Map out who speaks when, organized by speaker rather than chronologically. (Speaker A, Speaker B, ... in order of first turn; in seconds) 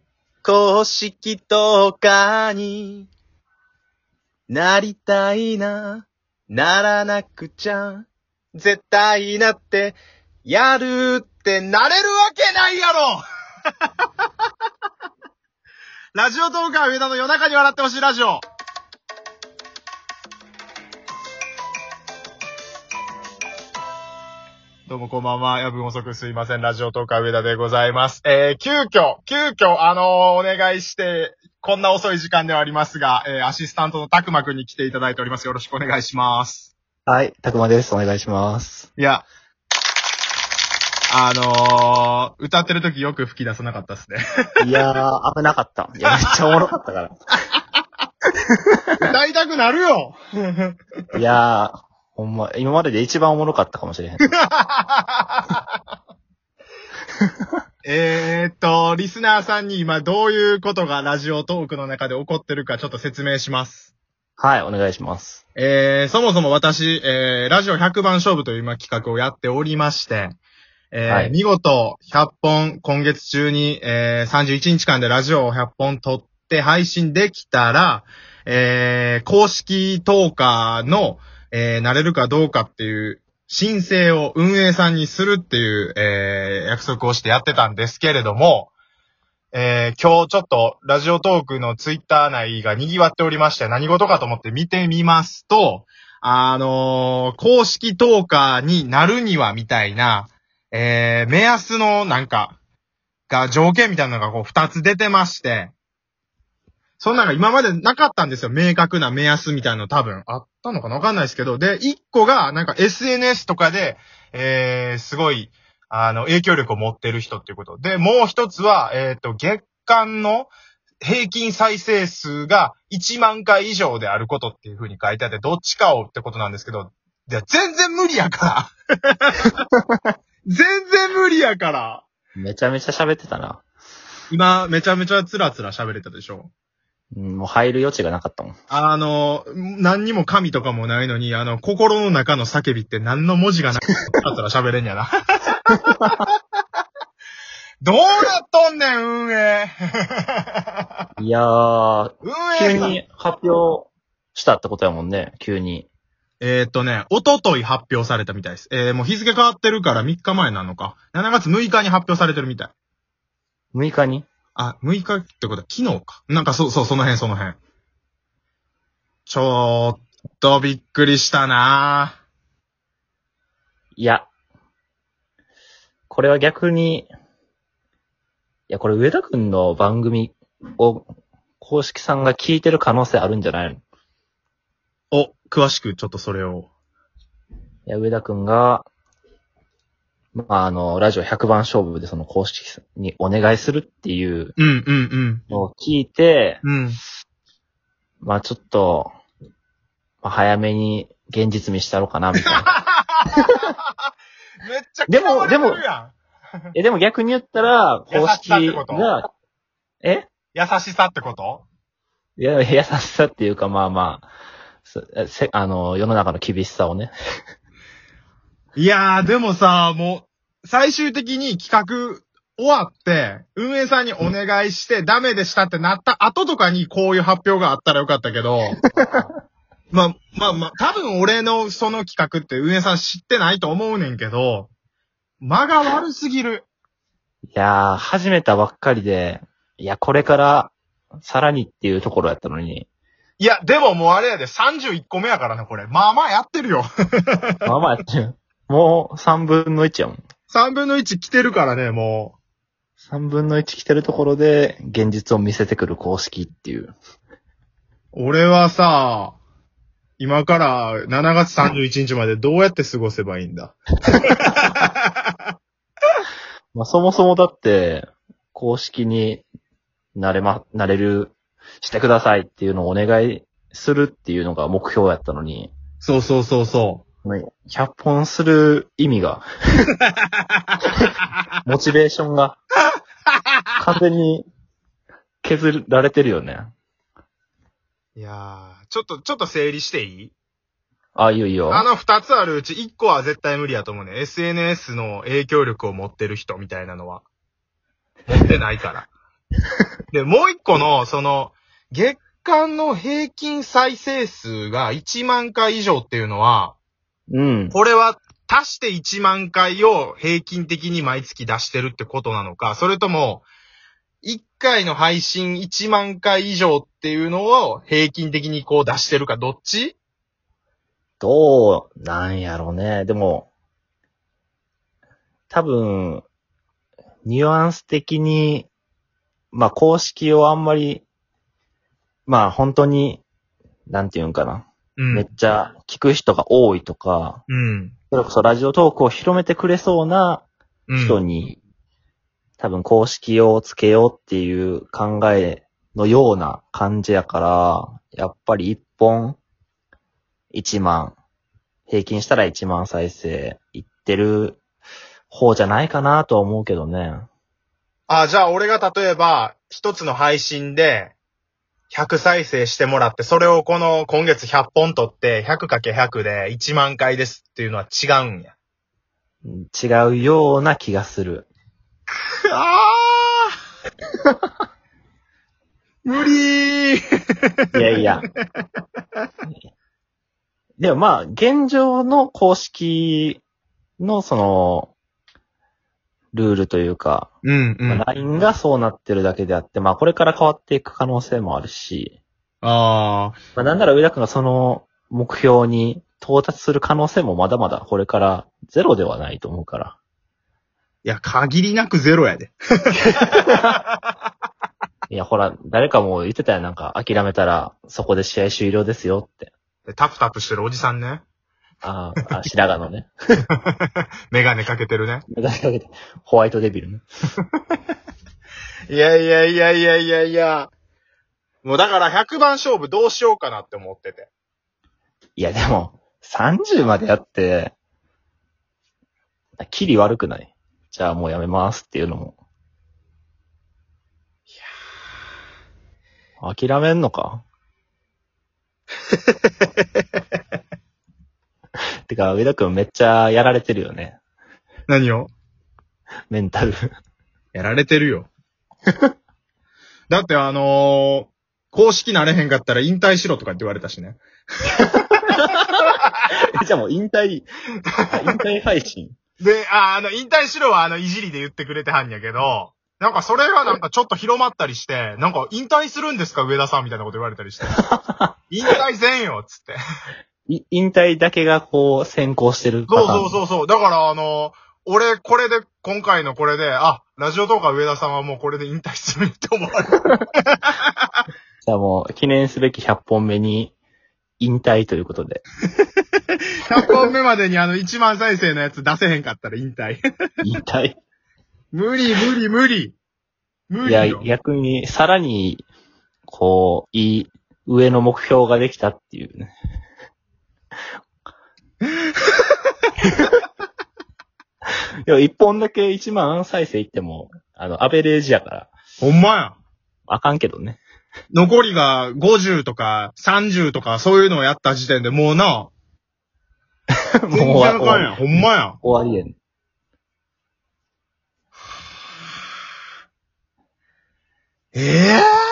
Speaker A: 0.4-3.1, 4.5-13.2, 16.1-18.4, 24.9-36.7, 39.0-39.3, 41.1-44.8, 49.0-50.8, 54.3-55.6, 57.8-63.9, 65.6-70.4, 70.9-88.7, 89.5-102.6, 103.3-105.7, 107.0-120.5, 121.0-129.6, 130.4-132.1, 134.3-136.5, 138.7-146.3, 147.8-150.8, 152.2-153.0, 156.4-162.7, 164.6-167.6, 169.3-172.2, 185.1-186.7, 194.6-195.4, 196.6-197.0, 202.4-203.6, 204.6-206.1, 208.1-209.1, 210.5-211.7, 218.8-228.8, 229.9-234.7, 235.4-236.7, 243.4-247.6, 250.5-252.4, 258.1-259.4, 260.2-265.3, 276.0-277.0, 288.2-290.3, 291.7-297.2, 298.3-299.1, 300.1-306.8, 307.7-313.4, 314.2-320.0, 335.0-335.3, 337.5-337.9, 340.9-341.2, 358.1-361.1, 361.9-368.5, 372.5-373.5, 376.1-377.0, 377.6-378.1, 387.4-388.1, 392.6-393.4, 401.1-403.4, 409.9-411.2, 413.6-415.2, 418.9-420.7, 421.6-424.3, 444.9-445.3, 447.5-448.3, 450.1-454.2, 458.0-458.4, 459.4-467.8, 468.5-469.8, 472.9-481.2, 486.6-490.0, 491.7-493.0, 493.7-494.3, 509.0-509.6, 511.3-515.7, 517.3-518.8, 524.7-525.2
Speaker B: 37.1-38.9, 44.6-47.1, 51.1-54.3, 64.4-65.4, 71.1-71.4, 132.4-133.6, 137.1-138.6, 145.8-146.2, 151.2-155.9, 163.7-164.3, 174.0-174.3, 176.1-177.1, 178.7-181.1, 181.6-183.8, 187.9-188.9, 190.3-194.6, 195.5-196.6, 198.2-199.1, 200.2-202.7, 205.1-205.8, 206.8-209.3, 210.0-210.3, 212.4-214.3, 214.8-217.1, 228.9-229.3, 237.5-242.9, 247.7-250.2, 253.0-256.9, 266.7-269.4, 270.1-275.7, 277.2-279.9, 281.6-282.6, 283.8-284.5, 285.4-286.7, 291.1-291.9, 307.3-307.8, 321.2-323.5, 325.5-326.3, 327.2-328.7, 329.5-331.1, 332.3-333.2, 333.9-337.4, 338.1-340.4, 341.0-341.6, 342.6-349.4, 350.5-351.2, 351.9-354.6, 355.3-357.3, 369.4-371.5, 377.7-378.3, 380.8-383.4, 384.0-384.9, 386.3-387.3, 387.9-392.2, 393.6-400.0, 403.0-403.8, 405.1-409.5, 411.8-413.1, 415.3-417.1, 425.4-427.7, 429.6-432.4, 436.4-437.4, 442.1-444.2, 446.3-446.9, 454.8-457.5, 458.1-459.1, 467.9-468.3, 470.5-473.4, 481.6-483.7, 484.4-485.4, 490.4-491.0, 493.9-495.7, 496.3-499.5, 505.1-508.7, 510.1-510.8, 517.2-518.2, 518.8-519.4